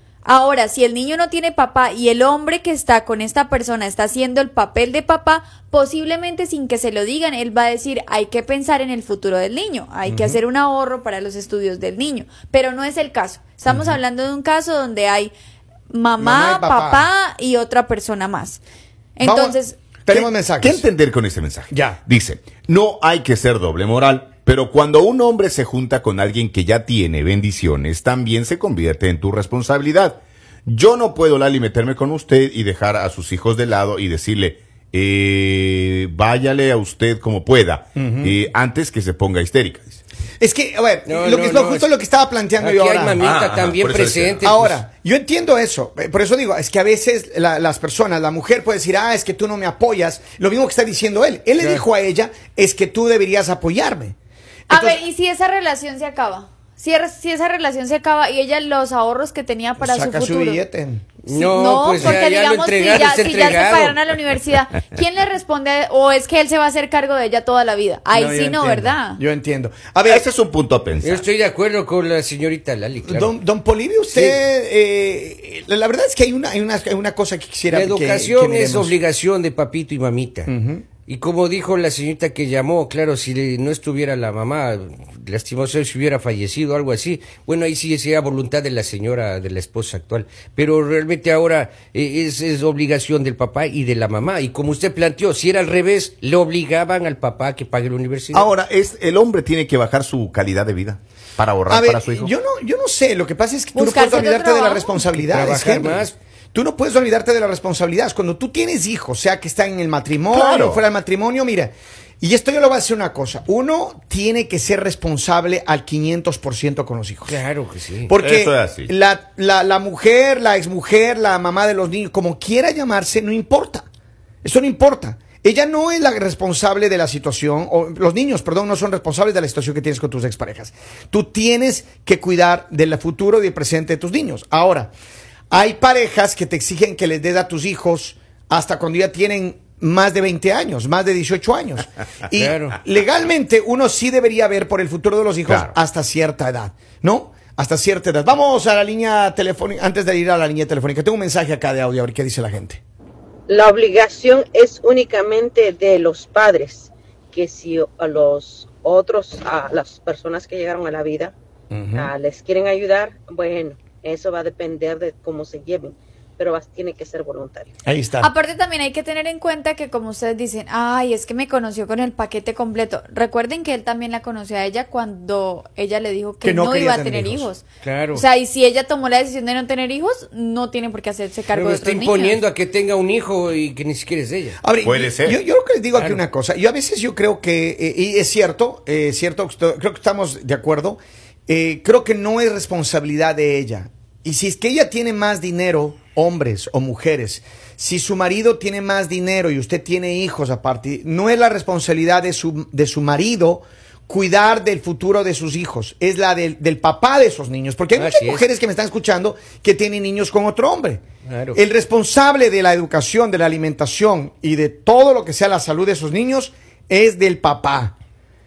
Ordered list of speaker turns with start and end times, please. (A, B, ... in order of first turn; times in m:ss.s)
0:00.2-0:15.3 A
0:10.0-0:10.4 B
0:13.7-0:14.0 B
0:15.9-0:18.6 A
0:16.2-0:17.1 B
0:19.2-0:19.8 A
0:19.2-0:20.8 B
0:20.1-0:40.0 C
0:21.7-0:22.0 B
0:37.9-0:38.4 B
0:40.4-0:43.3 B
0:41.0-0:41.9 D
0:42.6-0:44.8 D
0:43.2-0:44.4 C
0:44.4-0:54.2 B
0:51.6-0:51.8 D
0:54.7-0:55.0 B
0:54.7-1:00.6 A
0:59.8-1:01.0 B
1:01.2-1:04.0 D
1:01.3-1:09.2 A
1:08.1-1:10.3 B
1:10.0-1:11.2 C
1:11.0-1:13.4 D
1:13.1-1:18.9 B
1:14.1-1:14.4 D
1:17.7-1:20.5 D
1:20.5-1:20.9 B
1:21.0-1:38.5 D
1:38.3-1:42.3 C
1:41.7-1:57.4 B
1:43.7-1:45.0 A
1:45.2-1:46.2 D
1:50.3-1:50.8 C
1:57.2-1:58.2 D
1:58.1-2:03.8 B
1:58.2-1:58.9 C
2:04.4-2:14.9 B
2:15.5-2:32.8 B
2:22.4-2:22.8 D
2:33.5-2:40.4 E
2:41.7-2:42.1 B
2:41.9-2:45.4 E
2:46.4-2:47.0 E
2:47.8-2:48.3 B
2:48.2-3:02.4 A
2:56.4-2:57.5 B
2:57.8-2:58.2 D
3:01.5-3:04.6 D
3:04.6-3:31.0 B
3:04.8-3:05.4 C
3:05.9-3:06.2 D
3:28.0-3:28.4 D
3:31.3-3:31.6 D
3:31.5-3:37.9 B